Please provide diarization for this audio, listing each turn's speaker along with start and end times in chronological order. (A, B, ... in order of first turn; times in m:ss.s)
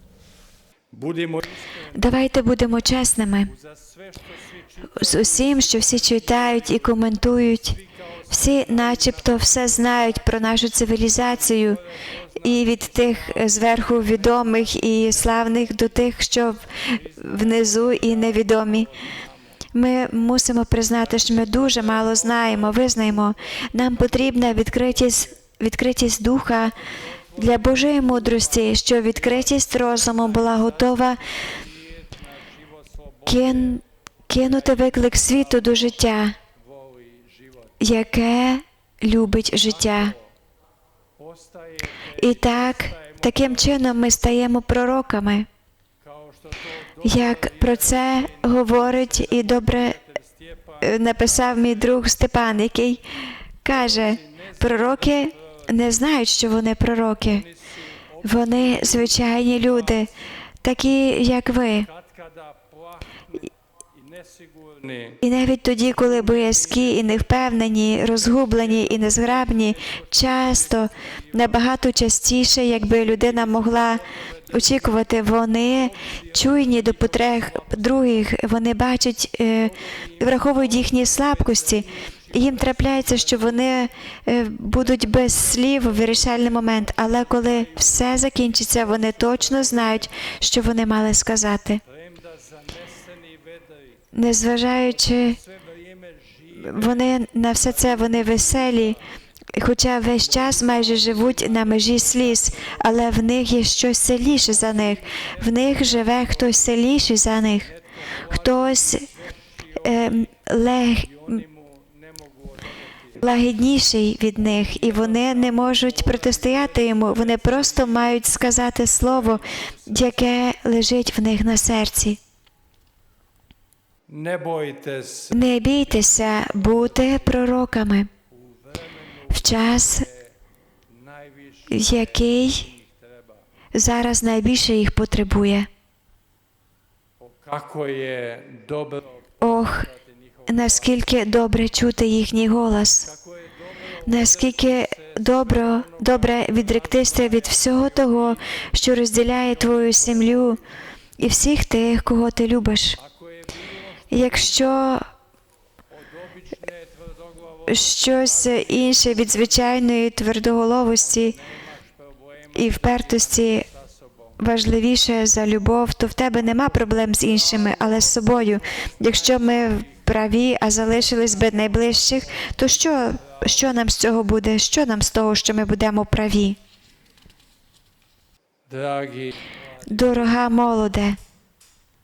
0:00.9-0:02.0 A
0:01.9-0:03.5 B
0:03.6-0:06.8 A
0:04.9-0:07.8 B
0:08.2-0:10.1 A
0:08.3-0:11.8 B
0:11.5-0:14.5 A
0:12.4-0:18.9 B
0:15.2-0:15.9 A
0:16.9-0:19.5 A
0:19.7-0:26.8 B
0:21.1-0:23.2 A
0:23.9-0:24.3 A
0:25.0-0:25.3 A
0:26.9-0:28.5 A
0:27.4-0:31.2 B
0:29.2-0:33.7 A
0:33.3-0:36.4 B
0:36.6-0:37.7 A
0:37.8-0:40.2 B
0:39.7-0:40.2 A
0:41.2-0:43.3 A
0:42.2-0:45.5 B
0:46.0-0:51.8 A
0:47.0-0:50.0 B
0:50.8-0:53.0 B
0:53.6-0:57.5 B
0:53.7-0:55.1 A
0:57.8-1:00.1 A
0:58.2-1:00.1 B
1:00.6-1:01.9 B
1:01.9-1:03.4 A
1:03.9-1:05.2 A
1:05.2-1:31.8 B
1:08.6-1:10.0 A
1:13.0-1:14.9 A
1:16.3-1:17.8 A
1:20.1-1:23.4 A
1:27.3-1:28.0 A
1:29.4-1:29.8 A
1:31.8-1:34.0 A
1:34.1-1:35.4 B
1:35.5-1:39.0 A
1:36.6-1:39.0 B
1:39.6-1:47.7 B
1:40.3-1:42.8 A
1:44.5-1:46.8 A
1:47.7-1:50.2 A
1:48.3-1:49.1 B
1:49.8-1:51.4 B
1:51.1-1:53.2 A
1:53.2-2:02.2 B
1:54.6-1:58.0 A
1:59.1-1:59.9 A
2:04.1-2:05.3 A
2:05.3-2:08.1 B
2:08.3-2:10.3 A
2:09.3-2:10.1 B
2:10.9-2:12.0 A
2:11.7-2:12.7 B
2:12.7-2:13.4 A
2:13.8-2:15.7 B
2:17.2-2:21.0 A
2:19.4-2:19.9 B
2:20.5-2:23.1 B
2:23.1-2:28.3 A
2:24.0-2:30.6 B
2:29.6-2:30.4 A
2:31.2-2:33.0 B
2:33.0-2:34.8 A
2:34.1-2:35.1 B
2:35.9-2:39.7 A
2:37.7-2:41.4 B
2:41.0-2:44.4 A
2:42.6-2:43.7 B
2:44.4-2:56.6 B
2:46.7-2:50.0 A
2:51.1-2:53.7 A
2:58.7-3:00.2 A
2:59.9-3:01.2 B